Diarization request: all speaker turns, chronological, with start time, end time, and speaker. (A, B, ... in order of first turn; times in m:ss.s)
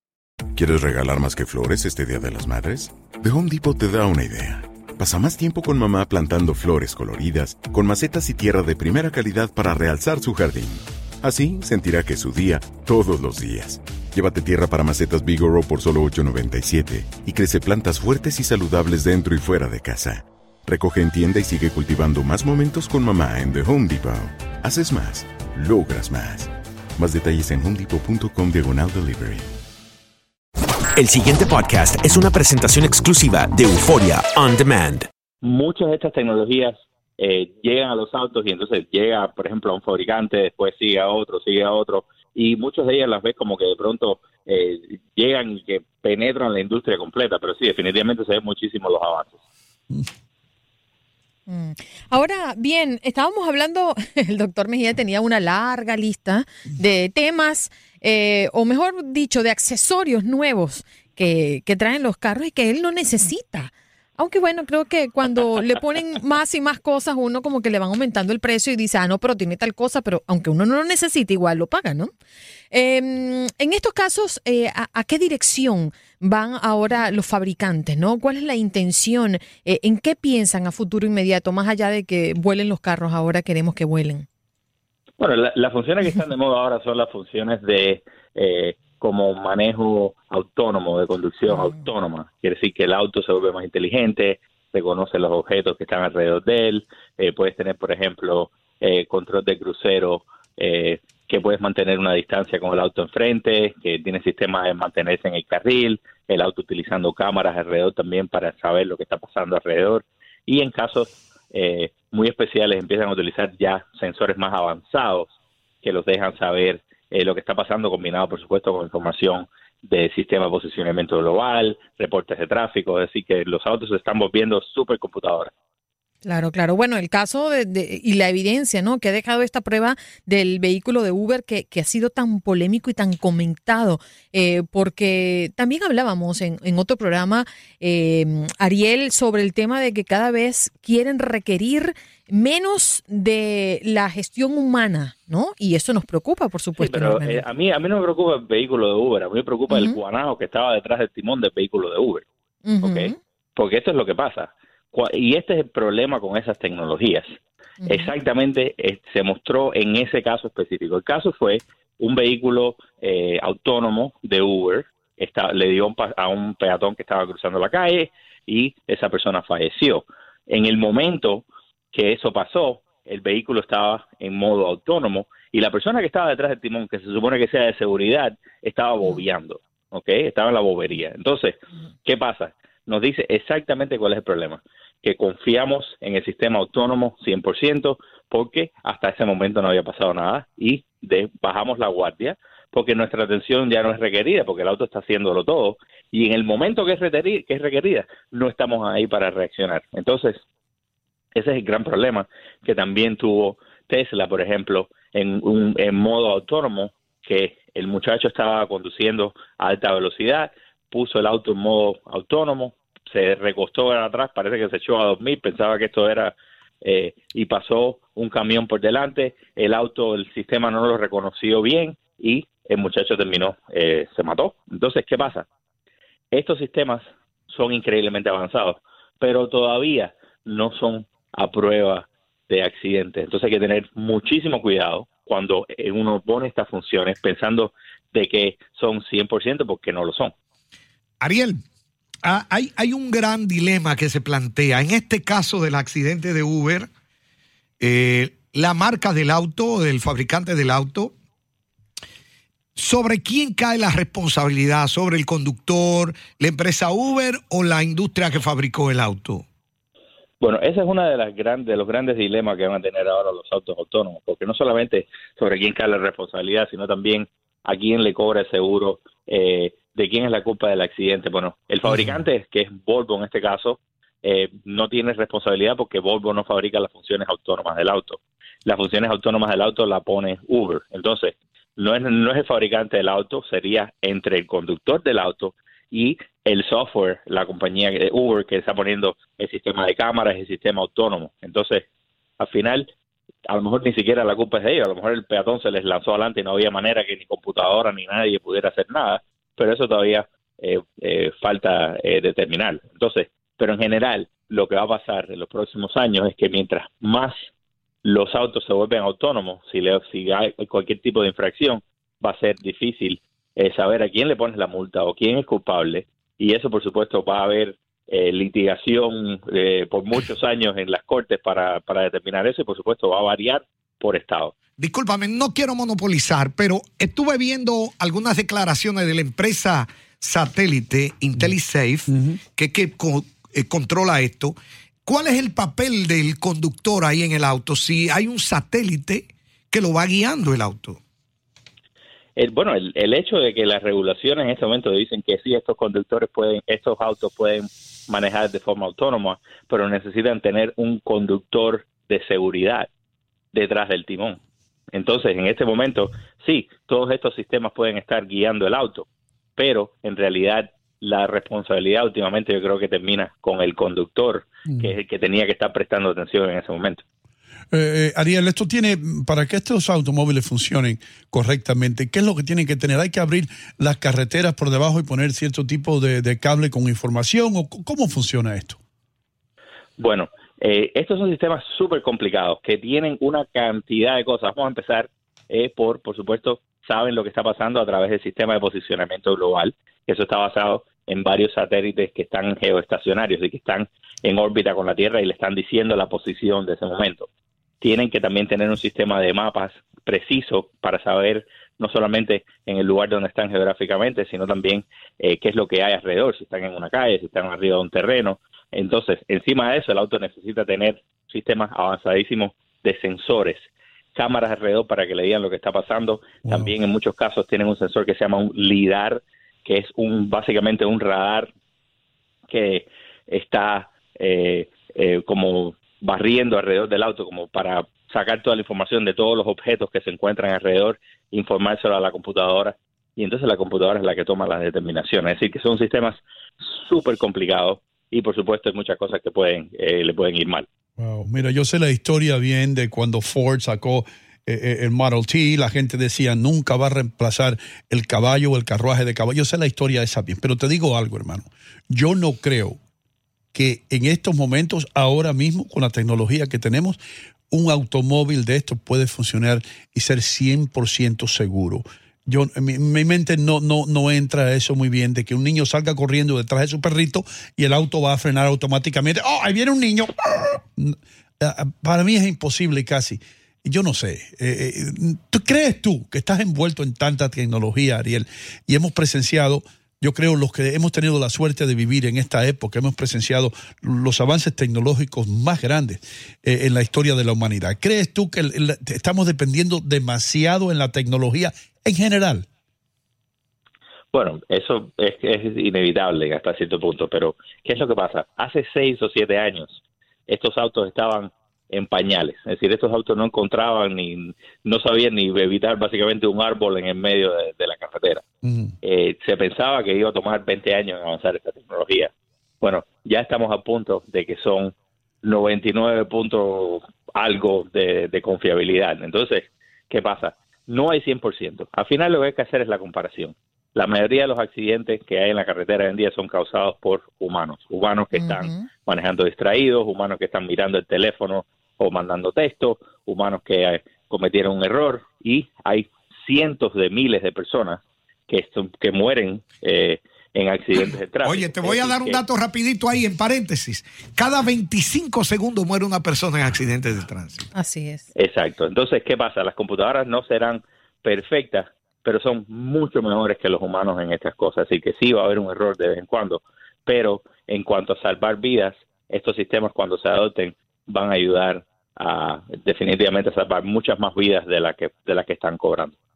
0:00.5-0:29.5 A
0:30.9-0:35.1 B
0:35.4-0:49.3 C
0:51.5-1:12.1 D
1:12.7-1:24.2 D
1:25.2-2:05.5 C
1:31.5-1:31.7 D
2:06.2-2:27.4 D
2:26.8-2:32.3 C
2:29.7-2:30.0 D
2:32.6-2:33.2 D
2:32.8-2:37.2 C
2:37.8-2:38.1 D
2:37.8-3:20.4 C
3:21.3-3:45.5 C
3:46.3-4:00.3 C
4:01.2-4:01.6 E
4:02.2-4:06.9 E
4:07.8-4:11.1 E
4:12.8-4:19.4 E
4:20.4-4:51.8 C
4:52.4-4:52.9 C
4:53.5-5:07.4 C
5:08.0-5:24.5 C
5:24.8-5:41.0 E
5:42.4-5:52.9 C
5:53.5-5:54.4 C
5:54.9-6:07.0 C
6:07.7-6:18.8 F
6:20.0-6:37.3 C
6:37.8-7:01.5 C
7:02.5-7:16.2 C
7:16.7-7:20.7 C
7:21.0-7:32.8 F
7:33.5-7:37.0 F
7:37.5-8:12.5 F
8:14.1-8:28.2 C
8:28.8-9:02.2 C
8:48.1-8:48.6 D
9:01.2-9:07.4 E
9:07.5-9:08.0 D
9:08.1-9:25.9 C